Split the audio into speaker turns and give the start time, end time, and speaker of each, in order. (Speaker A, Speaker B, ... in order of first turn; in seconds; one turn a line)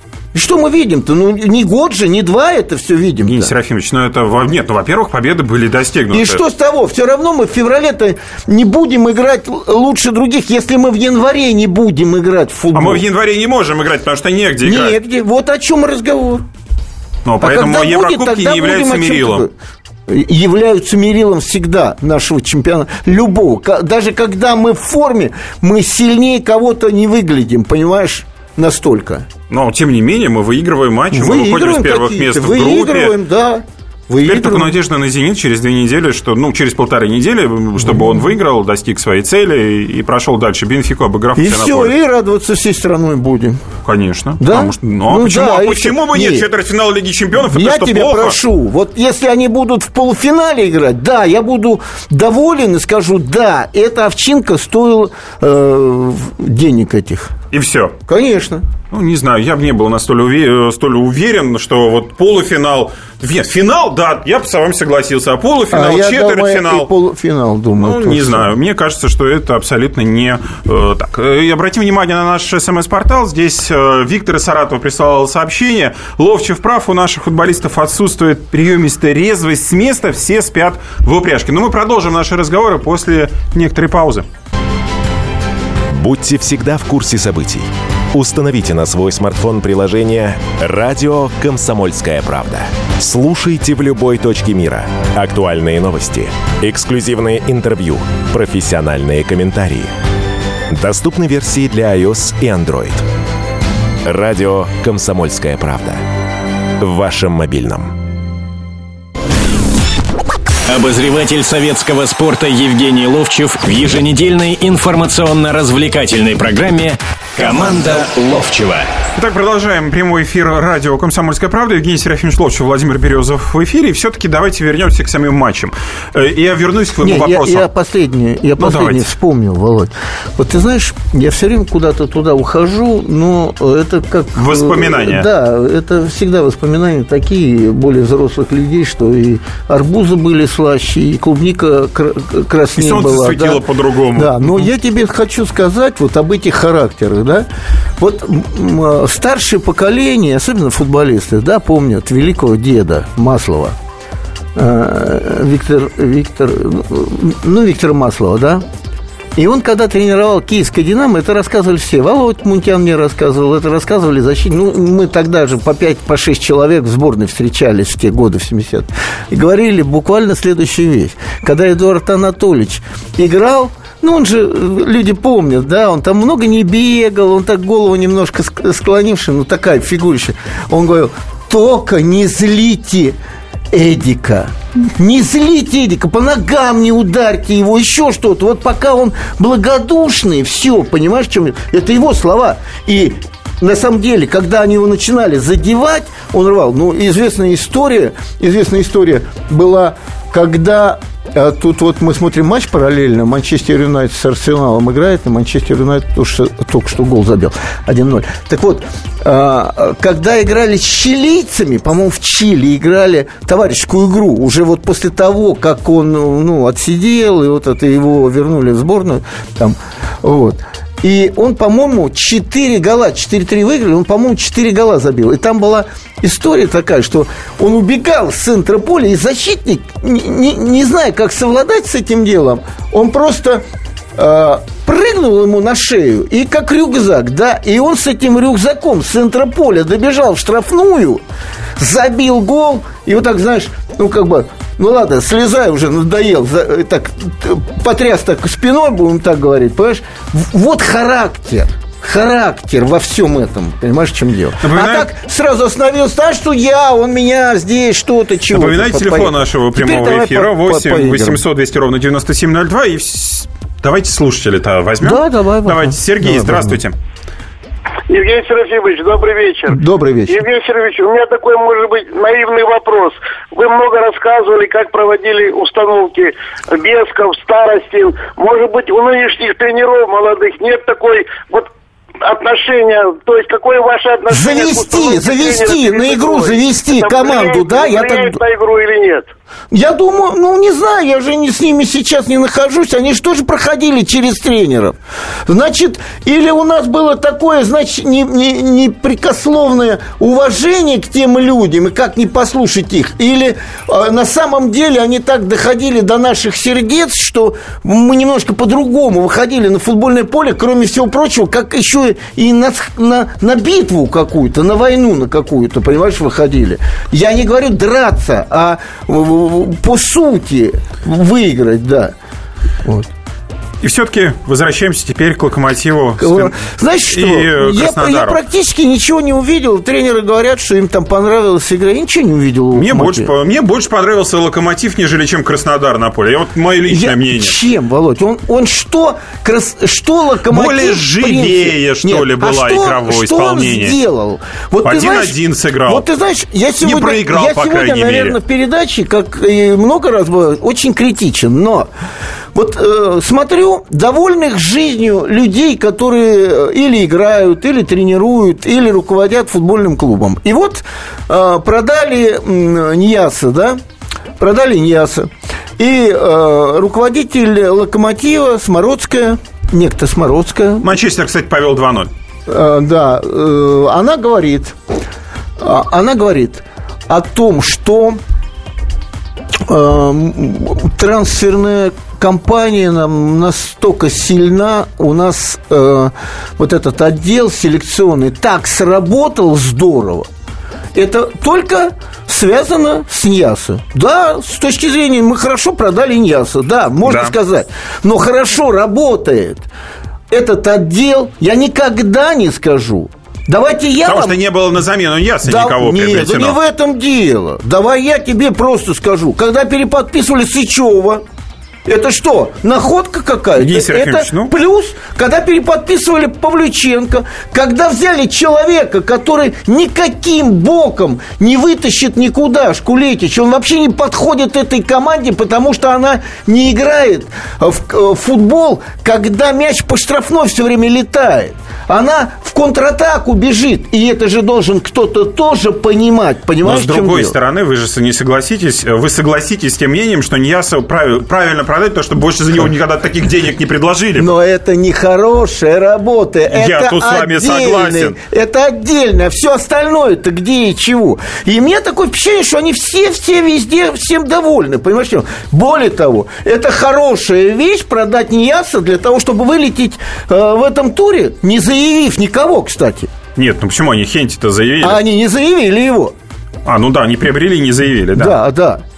Speaker A: 0.3-3.5
Speaker B: 3.2-6.4
Speaker A: 6.1-13.0
Speaker B: 12.7-14.9
Speaker A: 14.6-16.4
Speaker B: 17.2-19.5
Speaker A: 17.4-19.5
Speaker A: 20.1-29.3
Speaker B: 29.5-33.1
Speaker A: 31.1-34.7
Speaker B: 34.2-41.9
Speaker A: 41.4-43.6
Speaker B: 43.8-48.4
Speaker A: 44.4-46.5
Speaker A: 47.5-57.3
Speaker B: 57.5-57.9
Speaker A: 58.1-58.6
Speaker B: 58.9-66.9
Speaker A: 65.7-68.5
Speaker B: 67.8-84.2
Speaker C: 85.9-99.9
Speaker C: 100.7-103.0
Speaker C: 104.0-106.0
Speaker C: 106.8-107.9
Speaker D: 110.7-118.9
Speaker B: 119.2-127.6
Speaker A: 127.0-143.6
Speaker B: 128.6-129.1
Speaker B: 134.4-135.3
Speaker B: 142.8-144.7
Speaker A: 144.2-147.5
Speaker A: 148.0-153.8
Speaker A: 154.5-158.6
Speaker A: 159.3-183.2
Speaker A: 183.7-233.6
Speaker A: 234.2-241.2
Speaker A: 241.8-261.4
Speaker B: 254.6-255.1
Speaker B: 258.5-266.9
Speaker A: 265.0-266.8
Speaker E: 268.1-281.7
Speaker A: 269.7-270.4
Speaker E: 282.2-289.3
Speaker A: 284.3-288.4
Speaker A: 289.7-322.1
Speaker A: 322.8-323.1
Speaker B: 323.8-326.6
Speaker A: 326.2-333.3
Speaker B: 327.1-328.4
Speaker B: 332.7-337.6
Speaker A: 336.9-345.3
Speaker B: 340.5-344.0
Speaker B: 344.8-346.0
Speaker A: 345.9-351.9
Speaker B: 346.8-348.4
Speaker A: 352.5-363.8
Speaker A: 364.4-370.9
Speaker B: 370.8-372.1
Speaker A: 372.5-374.8
Speaker A: 375.6-378.2
Speaker A: 379.7-390.3
Speaker A: 390.9-399.6
Speaker B: 397.0-397.3
Speaker A: 400.3-404.4
Speaker B: 404.0-406.6
Speaker A: 405.4-411.2
Speaker A: 411.9-437.3
Speaker B: 413.6-414.5
Speaker B: 436.6-444.3
Speaker A: 444.2-463.1
Speaker B: 446.5-448.1
Speaker B: 463.4-465.0
Speaker A: 464.8-466.1
Speaker B: 466.6-468.4
Speaker A: 468.1-468.8